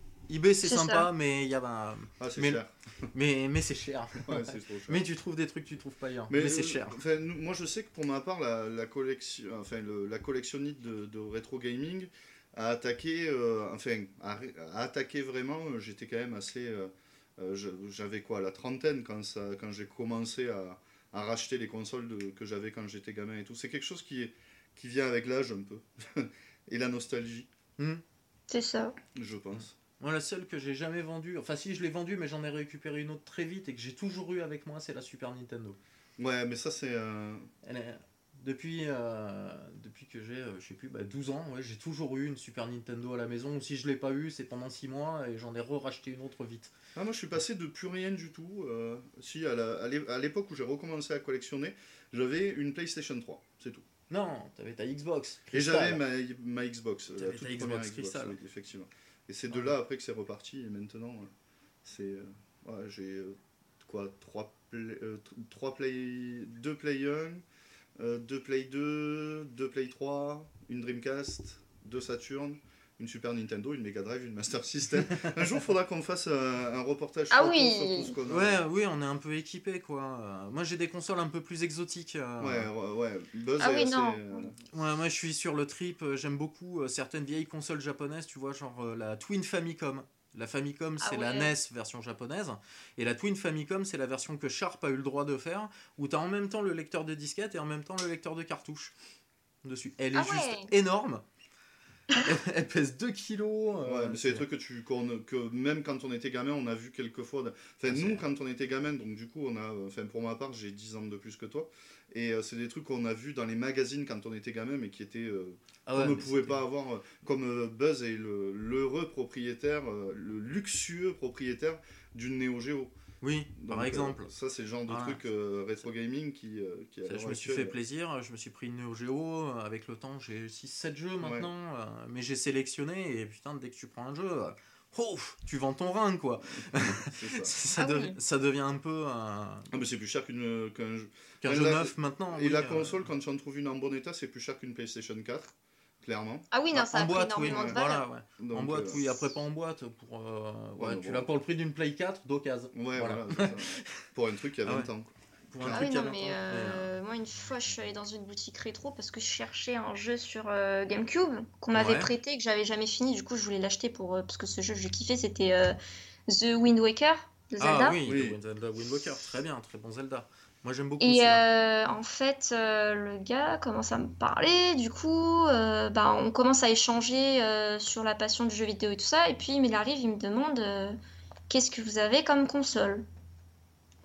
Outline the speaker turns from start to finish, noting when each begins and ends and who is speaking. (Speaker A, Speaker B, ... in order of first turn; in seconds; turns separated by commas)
Speaker A: 0.3-2.6, Speaker B: 0.6-1.1, Speaker C: 2.2-3.1, Speaker A: 3.1-7.0, Speaker C: 4.2-5.1, Speaker C: 6.3-27.5, Speaker B: 28.5-29.0, Speaker C: 29.1-29.7, Speaker A: 30.0-35.8, Speaker C: 36.2-37.5, Speaker A: 37.6-46.7, Speaker C: 47.0-53.9, Speaker A: 54.1-56.0, Speaker C: 55.5-61.3, Speaker A: 57.2-58.4, Speaker C: 61.8-67.4, Speaker C: 68.0-78.6, Speaker B: 77.3-78.2, Speaker A: 78.3-82.7, Speaker C: 82.4-84.6, Speaker B: 83.6-84.5, Speaker A: 84.7-98.9, Speaker B: 91.0-91.5, Speaker A: 99.6-101.2, Speaker B: 100.2-100.7, Speaker A: 102.2-104.5, Speaker C: 103.8-122.9, Speaker A: 107.9-108.2, Speaker A: 115.9-116.6, Speaker A: 123.2-124.3, Speaker C: 123.6-127.7, Speaker A: 124.9-125.2, Speaker A: 127.1-139.7, Speaker C: 131.2-131.5, Speaker C: 136.9-137.5, Speaker B: 137.8-138.2, Speaker C: 139.7-146.5, Speaker A: 141.4-143.1, Speaker B: 146.5-148.1, Speaker A: 146.7-154.0, Speaker C: 147.4-147.8, Speaker C: 148.4-149.1, Speaker C: 150.8-151.3, Speaker C: 152.7-155.9, Speaker A: 155.5-156.9, Speaker B: 155.7-165.8, Speaker A: 161.7-162.1, Speaker B: 166.3-168.0, Speaker A: 167.6-171.4, Speaker C: 168.1-168.4, Speaker B: 171.0-181.0, Speaker B: 181.5-183.1